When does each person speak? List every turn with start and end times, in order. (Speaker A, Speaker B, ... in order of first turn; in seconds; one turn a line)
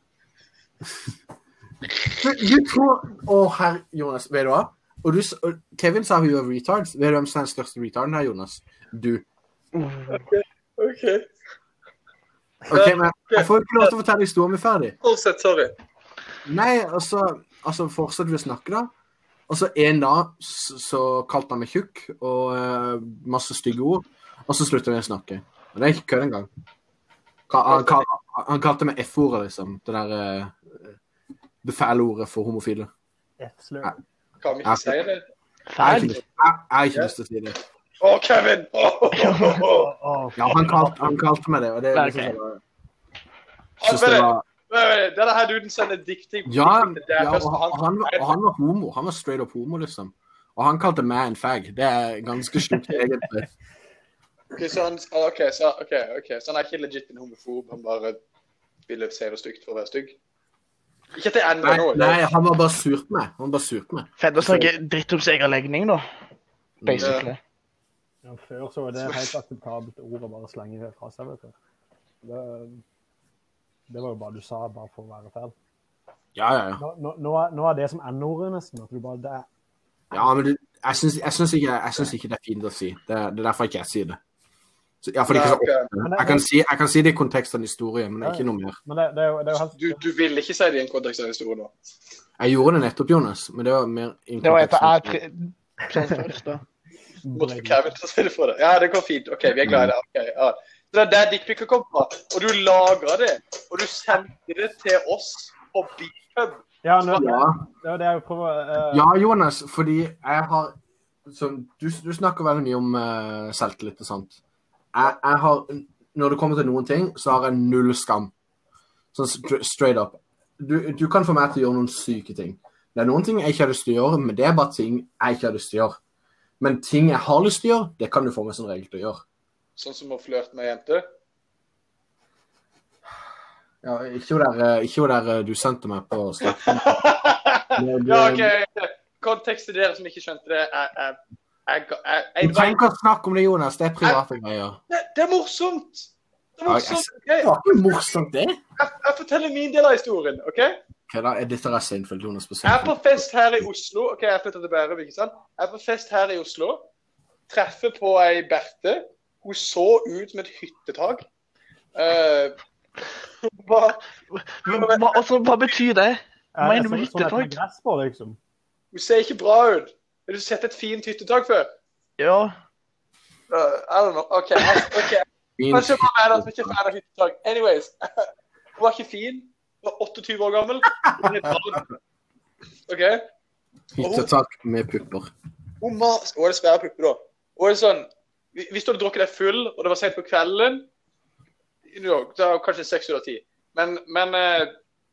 Speaker A: 2.1-9.2
Speaker B: 9.8-10.1
Speaker C: 10.1-11.2
Speaker A: 12.7-14.9
Speaker C: 12.7-13.9
Speaker C: 15.0-15.8
Speaker A: 16.4-18.9
Speaker A: 19.5-26.5
Speaker A: 27.5-30.6
Speaker C: 27.7-28.0
Speaker A: 31.6-32.9
Speaker D: 33.4-34.0
Speaker C: 34.4-35.2
Speaker A: 34.6-35.0
Speaker B: 35.7-36.2
Speaker A: 35.8-37.6
Speaker C: 35.8-36.2
Speaker C: 38.0-39.9
Speaker B: 39.1-39.6
Speaker D: 39.7-41.1
Speaker A: 40.4-42.6
Speaker B: 41.9-42.4
Speaker C: 43.8-48.3
Speaker A: 43.9-44.4
Speaker A: 46.5-53.5
Speaker C: 54.5-58.2
Speaker C: 58.9-60.2
Speaker C: 61.1-62.2
Speaker A: 61.6-64.7
Speaker B: 64.2-66.0
Speaker A: 66.8-67.2
Speaker B: 66.8-67.4
Speaker C: 67.0-67.3
Speaker D: 68.2-71.5
Speaker D: 72.2-72.8
Speaker D: 73.9-75.5
Speaker A: 76.3-76.8
Speaker D: 76.8-79.5
Speaker A: 80.1-84.2
Speaker A: 85.0-88.8
Speaker C: 85.3-85.9
Speaker D: 86.0-86.4
Speaker D: 88.2-90.0
Speaker C: 89.8-91.7
Speaker A: 92.4-95.2
Speaker B: 94.4-96.6
Speaker D: 97.2-97.8
Speaker C: 97.3-106.6
Speaker A: 99.6-99.9
Speaker D: 106.8-109.1
Speaker A: 107.1-107.6
Speaker A: 108.9-110.7
Speaker A: 111.3-114.4
Speaker A: 114.9-118.3
Speaker A: 119.1-126.0
Speaker A: 126.6-129.2
Speaker C: 129.8-131.0
Speaker A: 133.8-137.0
Speaker C: 136.6-142.8
Speaker A: 137.8-138.5
Speaker A: 142.4-144.8
Speaker C: 144.9-147.9
Speaker A: 146.7-148.6
Speaker C: 148.8-150.8
Speaker A: 151.1-153.2
Speaker C: 152.6-156.8
Speaker C: 157.5-161.2
Speaker C: 161.9-162.5
Speaker C: 163.4-164.0
Speaker B: 164.3-167.5
Speaker C: 164.6-165.2
Speaker D: 166.6-168.4
Speaker C: 168.9-171.7
Speaker B: 172.2-172.5
Speaker C: 173.5-181.9
Speaker A: 175.6-176.7
Speaker C: 182.9-183.2
Speaker A: 183.9-185.3
Speaker C: 184.0-184.3
Speaker C: 185.8-190.9
Speaker C: 191.9-194.7